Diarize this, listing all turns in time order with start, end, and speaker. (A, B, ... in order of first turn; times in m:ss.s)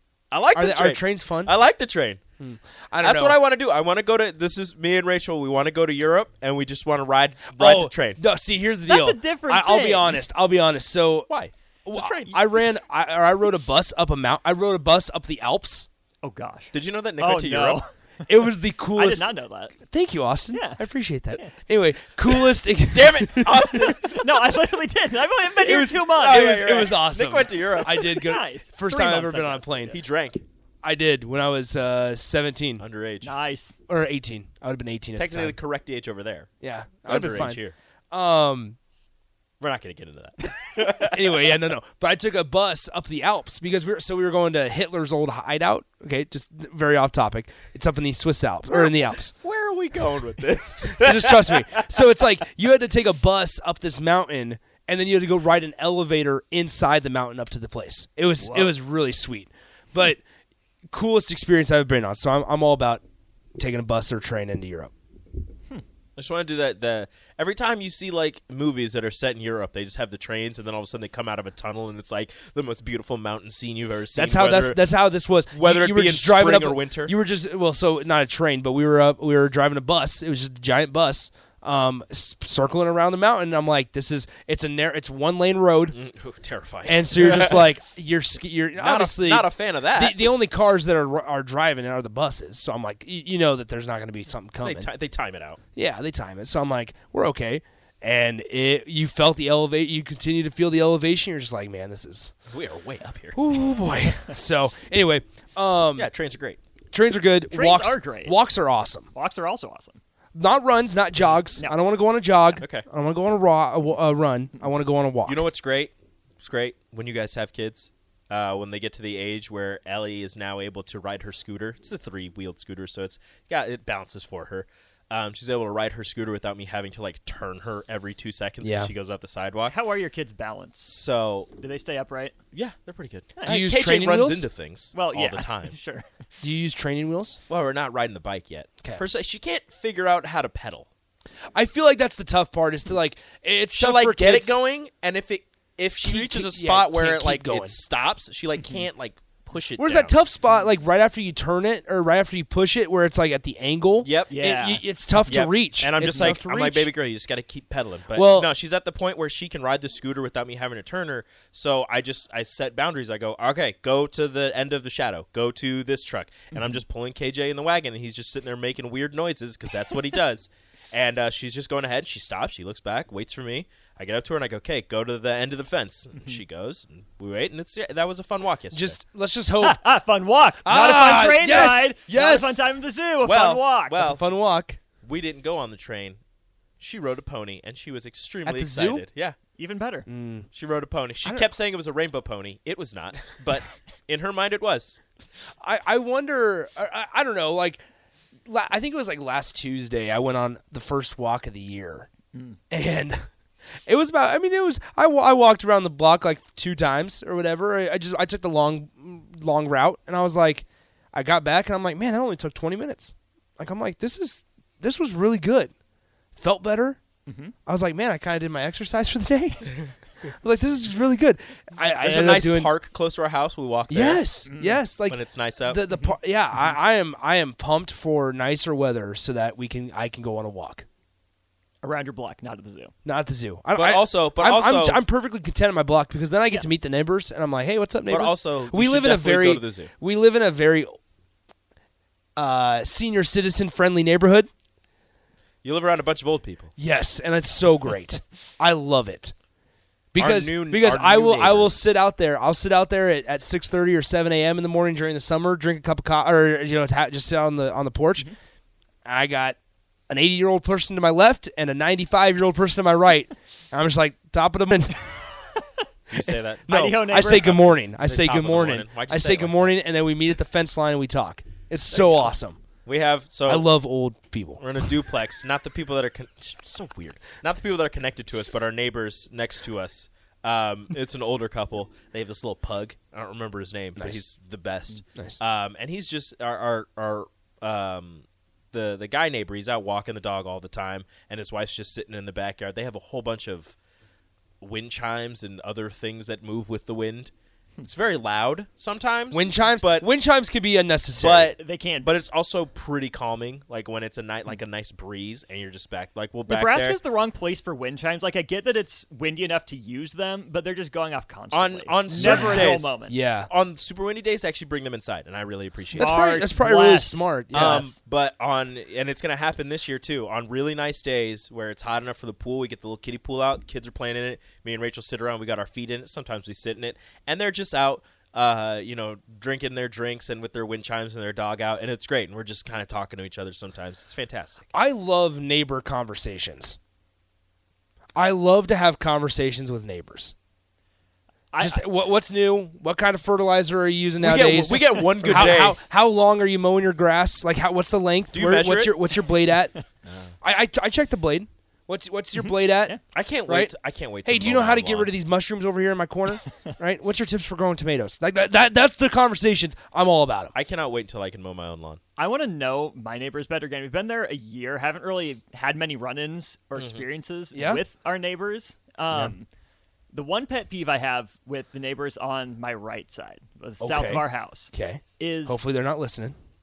0:00.3-0:02.2 A
0:00.5-0:01.6 B
0:02.4-0:03.4 B
0:03.0-0:08.2 A
0:07.5-0:11.3 B
0:08.9-0:10.2 C
0:11.3-0:12.4 A
0:11.8-0:15.9 B
0:16.2-0:17.9 C
0:16.7-0:17.8 A
0:18.3-0:24.1 B
0:18.9-0:19.8 C
0:20.5-0:20.8 C
0:22.9-0:24.2 A
0:24.2-0:26.6 C
0:25.6-0:30.0 B
0:25.7-0:28.2 A
0:28.0-0:30.0 C
0:29.9-0:30.4 A
0:30.8-0:32.8 B
0:32.8-0:33.3 A
0:33.2-0:33.8 C
0:33.9-0:35.6 B
0:35.2-0:36.5 A
0:36.6-0:38.8 B
0:37.1-0:37.8 A
0:39.6-0:41.5 A
0:40.8-0:49.3 B
0:48.7-0:52.0 A
0:50.8-1:00.2 B
1:00.9-1:03.0 B
1:03.6-1:04.9 B
1:06.2-1:14.8 A
1:14.2-1:26.0 B
1:15.5-1:17.1 A
1:25.9-1:27.6 A
1:26.8-1:34.9 B
1:28.8-1:30.3 A
1:34.6-1:35.6 A
1:35.8-1:42.3 B
1:42.5-1:43.5 A
1:43.4-1:46.1 B
1:46.0-1:46.6 A
1:46.9-1:49.1 B
1:47.5-1:48.4 C
1:49.1-1:50.0 C
1:50.4-1:55.4 B
1:52.6-1:52.8 A
1:55.2-2:09.8 A
2:08.6-2:08.9 B
2:09.7-2:10.9 C
2:10.8-2:11.5 A
2:11.6-2:12.4 C
2:12.5-2:15.8 A
2:13.4-2:13.6 C
2:13.5-2:14.5 B
2:14.9-2:16.0 C
2:16.4-2:17.4 B
2:17.5-2:20.9 A
2:21.6-2:24.5 B
2:23.8-2:30.2 A
2:26.0-2:27.8 B
2:29.8-2:36.9 B
2:34.0-2:34.4 A
2:34.3-2:34.8 C
2:35.3-2:59.0 A
2:36.1-2:36.3 C
2:38.1-2:38.5 B
2:58.7-2:59.8 B
2:59.6-3:04.0 C
3:00.6-3:02.6 B
3:03.2-3:04.2 A
3:03.9-3:04.8 B
3:05.0-3:06.2 A
3:06.8-3:09.4 A
3:08.4-3:09.0 B
3:09.6-3:10.1 C
3:10.1-3:10.5 B
3:10.5-3:15.0 A
3:15.6-3:17.8 B
3:18.5-3:22.1 B
3:22.7-3:23.2 B
3:23.9-3:35.7 B
3:36.4-3:37.0 B
3:37.3-3:37.6 C
3:37.7-3:42.7 B
3:42.0-3:44.2 A
3:43.9-3:50.8 B
3:44.5-3:44.8 C
3:45.1-3:45.8 A
3:51.8-3:52.9 C
3:53.0-4:01.0 B
3:53.8-3:55.0 A
3:58.1-3:59.9 A
4:02.4-4:04.5 B
4:05.6-4:06.7 A
4:06.8-4:09.3 B
4:10.1-4:18.3 B
4:10.2-4:12.0 A
4:19.0-4:19.6 B
4:20.1-4:25.1 B
4:26.1-4:29.8 A
4:26.2-4:32.6 B
4:26.7-4:27.5 C
4:32.8-4:33.7 A
4:33.5-4:34.9 B
4:34.6-4:53.8 A
4:54.6-4:57.3 A
4:57.8-5:00.1 A
4:59.3-5:01.6 B
5:01.2-5:07.0 A
5:01.6-5:02.2 C
5:06.5-5:13.2 C
5:11.5-5:13.0 A
5:12.1-5:13.5 B
5:13.5-5:16.2 A
5:15.9-5:17.9 B
5:16.0-5:17.9 C
5:17.5-5:34.7 A
5:34.7-5:36.8 B
5:38.2-5:40.3 B
5:41.5-5:41.8 C
5:41.6-5:49.8 B
5:44.2-5:45.8 A
5:48.3-5:49.0 A
5:50.0-5:50.3 A
5:50.4-5:53.7 B
5:52.4-5:53.0 C
5:53.1-5:55.1 A
5:54.2-6:00.5 B
6:00.5-6:02.0 A
6:02.2-6:09.5 C
6:06.8-6:07.0 A
6:07.5-6:07.8 B
6:10.1-6:15.6 C
6:13.8-6:16.4 B